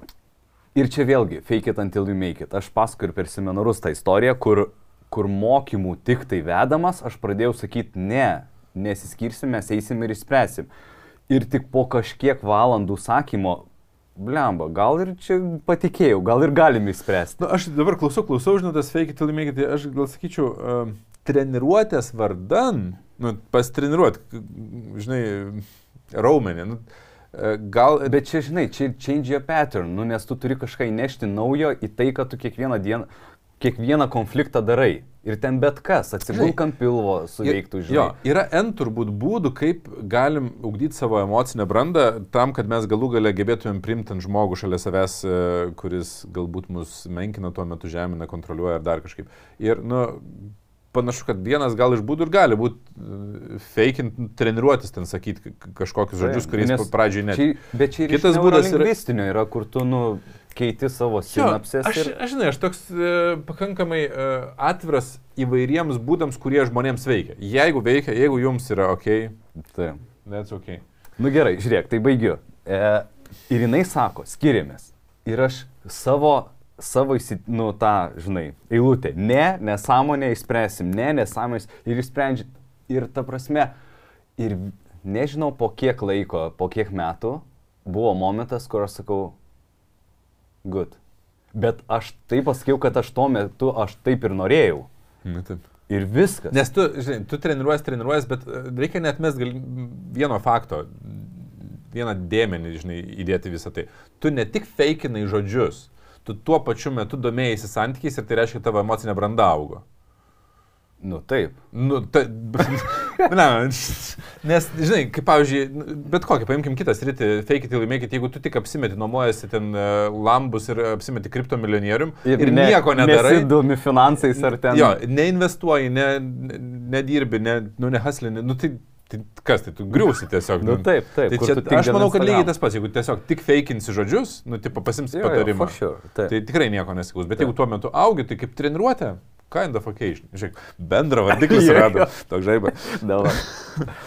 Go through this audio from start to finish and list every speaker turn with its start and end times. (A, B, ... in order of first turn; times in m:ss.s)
0:00.7-0:10.7 A
0:11.3-0:13.6 A
0:14.2-0:17.4 A
0:17.4-0:28.2 B
0:28.0-0:33.1 A
0:33.6-0:38.2 A
0:36.3-0:36.6 B
0:37.4-0:57.5 B
0:56.2-1:02.1 A
0:58.1-0:58.9 B
1:01.3-1:09.4 B
1:09.7-1:10.0 A
1:10.2-1:10.8 B
1:11.2-1:23.7 A
1:24.4-1:29.4 A
1:30.6-1:31.0 A
1:31.5-1:34.9 A
1:35.2-1:35.6 B
1:35.9-1:36.6 A
1:36.5-1:49.8 B
1:51.0-1:51.6 A
1:51.7-2:03.5 B
2:02.2-2:05.0 A
2:04.2-2:15.8 B
2:10.6-2:12.5 A
2:15.1-2:16.3 A
2:16.3-2:23.9 B
2:21.3-2:23.9 A